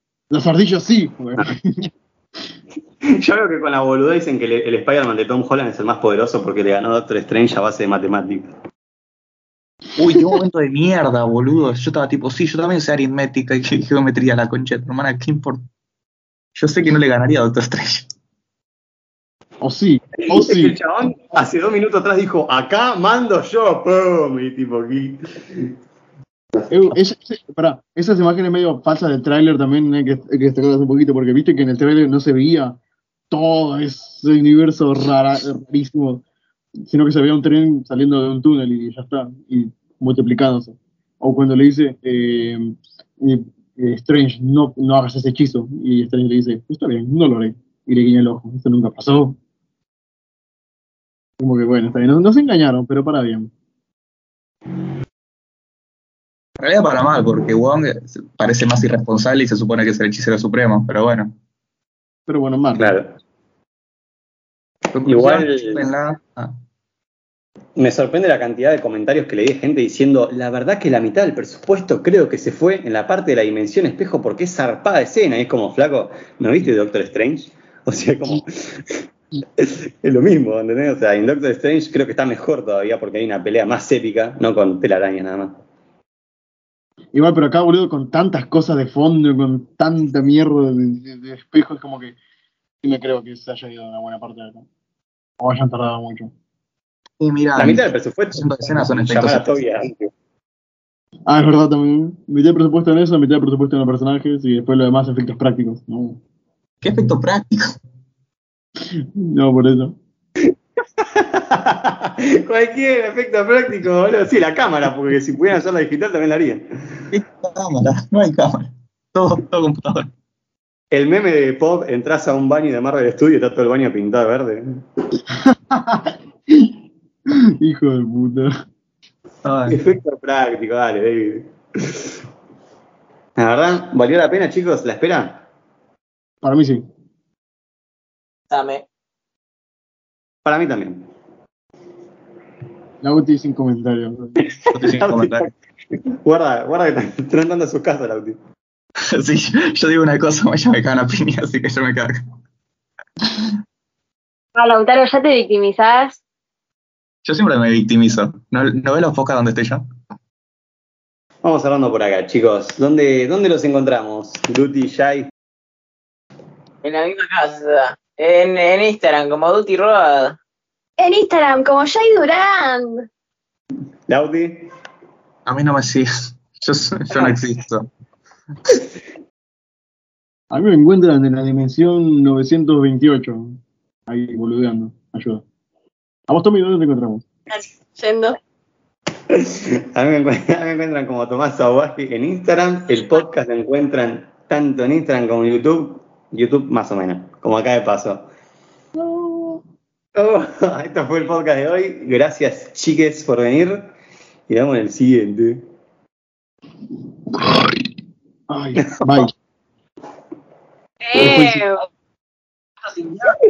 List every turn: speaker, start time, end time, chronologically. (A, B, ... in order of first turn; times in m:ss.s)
0:00.3-0:01.9 A
0:03.1-0:08.5 B
0:10.0-0:15.7 C
0:16.6-0:18.1 C
0:19.6-0:20.8 A
0:20.2-0:25.7 B
0:26.7-0:32.8 A
0:33.3-0:36.2 A
0:36.9-0:49.4 A
0:51.4-0:53.5 A
0:56.6-1:01.3 C
1:02.3-1:03.0 A
1:02.8-1:03.1 B
1:04.9-1:06.6 C
1:05.1-1:05.8 B
1:07.8-1:19.0 B
1:19.6-1:25.6 B
1:27.1-1:32.2 A
1:32.8-1:34.6 A
1:35.4-1:36.3 A
1:37.2-1:39.6 C
1:37.6-1:40.1 B
1:41.3-1:46.2 A
1:46.8-1:47.7 C
1:48.9-1:50.0 A
1:51.0-1:56.6 B
1:57.1-2:00.1 C
2:00.9-2:04.6 B
2:05.3-2:06.7 A
2:07.3-2:08.5 A
2:09.4-2:09.8 C
2:09.7-2:12.1 B
2:13.4-2:15.4 B
2:16.4-2:16.8 A
2:18.5-2:18.8 D
2:20.4-2:21.1 B
2:23.0-2:24.4 A
2:24.4-2:28.4 B
2:24.7-2:25.5 C
2:29.1-2:32.2 C
2:34.6-2:36.2 E
2:37.2-2:39.9 C
2:41.4-2:45.3 B
2:46.8-2:50.4 D
2:51.0-2:53.1 E
2:54.1-2:54.7 B
2:55.5-2:57.9 C
3:00.5-3:05.4 A
3:06.3-3:07.3 A
3:07.5-3:08.4 E
3:09.3-3:18.3 B
3:19.0-3:19.6 A
3:20.2-3:23.9 B
3:24.5-3:25.6 B
3:28.5-3:29.3 A
3:28.8-3:29.3 B
3:31.0-3:31.9 E